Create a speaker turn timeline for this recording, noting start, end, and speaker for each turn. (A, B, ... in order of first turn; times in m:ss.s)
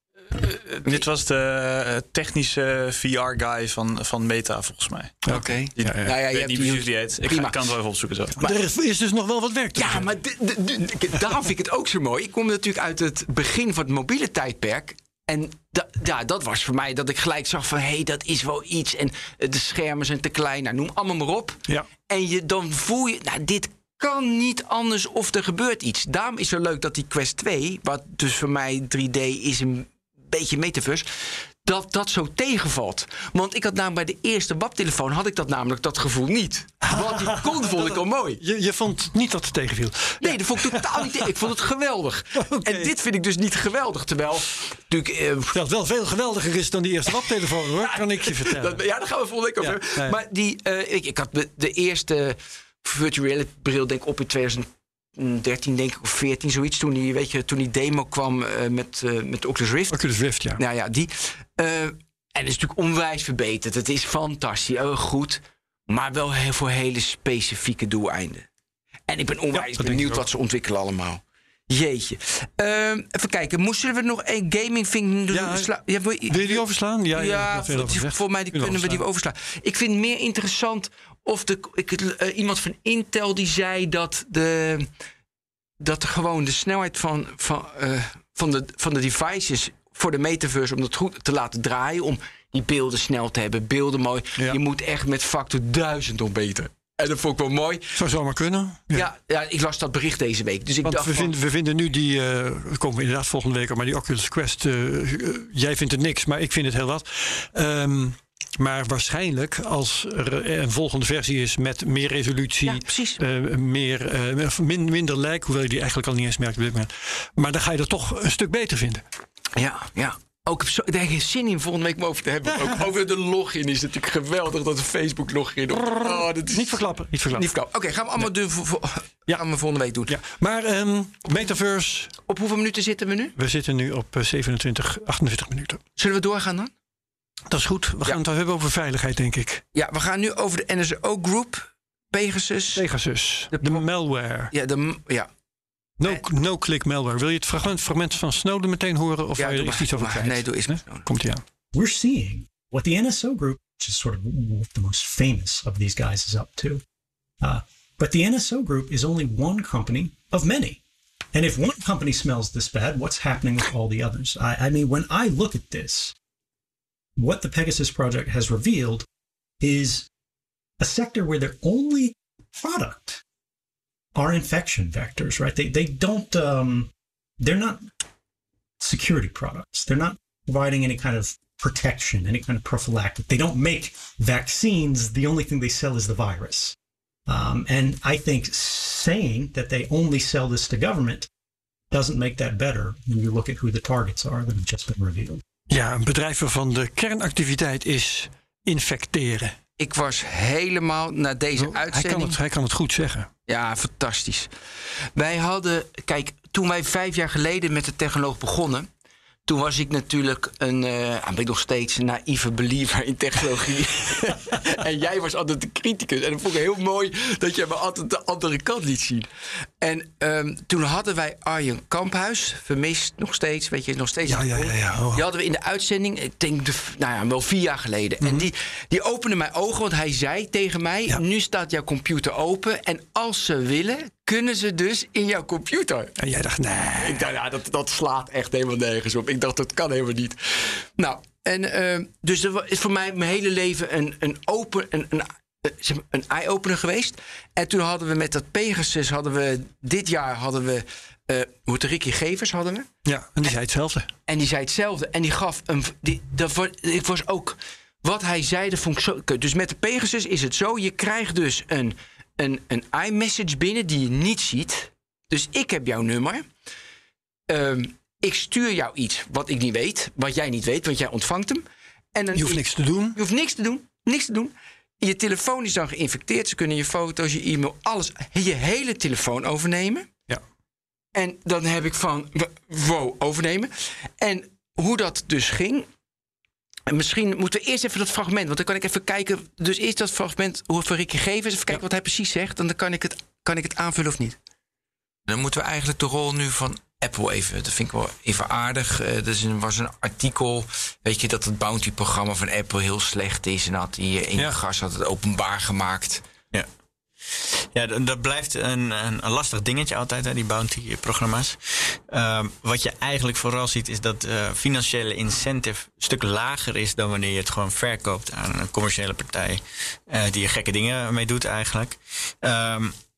0:00.7-0:08.4 A
0:05.3-0:06.0 B
0:05.3-0:07.7 C
0:08.4-0:10.1 B
0:09.8-0:38.4 C
0:36.8-0:41.2 B
0:40.2-0:45.6 C
0:42.4-0:42.9 B
0:45.5-0:48.8 B
0:47.2-1:00.0 C
0:49.6-0:50.2 B
0:59.9-1:00.6 B
1:00.6-1:08.5 C
1:09.1-1:16.6 C
1:09.5-1:10.2 B
1:15.3-1:15.7 B
1:16.3-1:19.0 B
1:17.1-1:24.9 C
1:25.8-1:38.0 C
1:38.0-1:39.1 B
1:38.9-1:41.3 C
1:40.8-1:59.0 B
1:52.6-1:53.2 C
1:59.6-2:06.8 C
2:05.8-2:07.5 B
2:07.3-2:10.1 C
2:10.1-2:12.1 B
2:12.3-2:13.3 C
2:13.4-2:15.8 B
2:16.0-2:16.7 C
2:17.5-2:19.6 B
2:19.7-2:22.8 C
2:22.7-2:24.5 B
2:23.5-2:23.8 C
2:24.5-2:25.3 C
2:26.0-2:31.4 B
2:29.4-2:31.0 C
2:31.7-2:36.8 D
2:37.4-2:40.8 D
2:41.3-2:46.1 D
2:47.2-2:49.0 D
2:49.6-2:50.1 D
2:50.8-2:53.2 D
2:54.1-2:57.8 D
2:58.8-3:06.7 D
3:07.3-3:11.3 D
3:11.9-3:15.4 D
3:15.7-3:19.5 B
3:19.8-3:22.4 C
3:21.6-3:23.3 B
3:23.5-3:24.5 C
3:25.2-3:28.9 C
3:29.5-3:39.3 C
3:39.8-3:56.1 C
3:44.3-3:45.2 B
3:56.2-3:57.2 B
3:57.0-4:12.9 C
4:13.0-4:14.1 B
4:14.3-4:26.4 C
4:27.5-4:40.1 C
4:32.3-4:33.2 B
4:41.1-4:45.9 C
4:46.9-4:54.4 C
4:55.3-5:06.2 C
5:07.3-5:22.9 E